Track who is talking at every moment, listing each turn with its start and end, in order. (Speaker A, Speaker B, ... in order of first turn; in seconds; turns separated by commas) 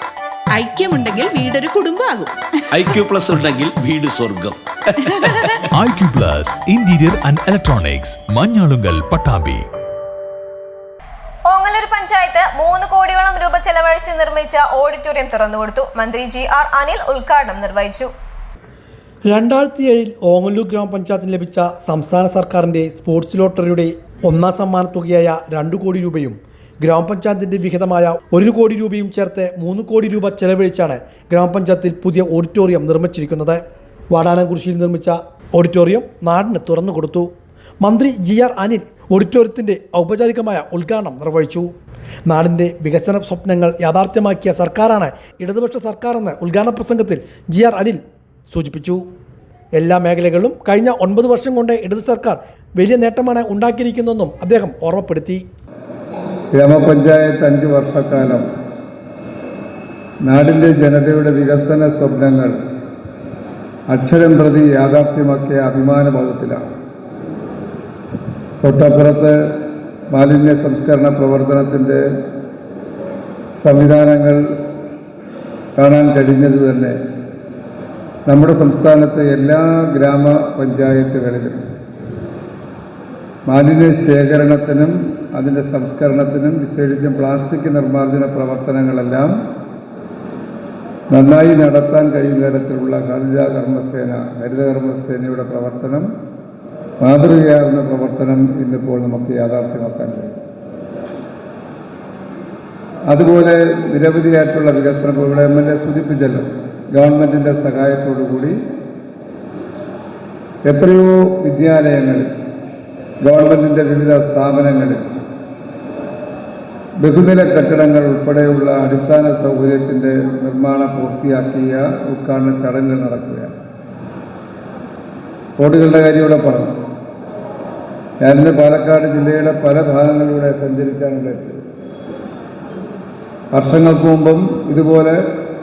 Speaker A: 0.5-2.3, Speaker B: 2.7-5.0, Speaker A: 5.3-5.6, Speaker C: 5.7-9.7, Speaker D: 11.5-18.1, Speaker E: 19.3-33.6, Speaker E: 34.1-37.3, Speaker E: 37.8-41.7, Speaker E: 42.3-48.0, Speaker E: 48.5-49.0, Speaker E: 49.8-55.4, Speaker F: 56.5-58.5, Speaker F: 60.2-62.6, Speaker F: 63.9-66.6, Speaker F: 68.6-69.4, Speaker F: 70.1-72.0, Speaker F: 73.6-74.4, Speaker F: 75.8-77.0, Speaker F: 78.3-81.6, Speaker F: 83.5-89.3, Speaker F: 91.1-96.1, Speaker F: 97.0-100.4, Speaker F: 103.1-108.6, Speaker F: 110.6-112.3, Speaker F: 113.2-115.1, Speaker F: 117.0-123.6, Speaker F: 125.6-126.8, Speaker F: 128.2-131.6, Speaker F: 133.5-135.2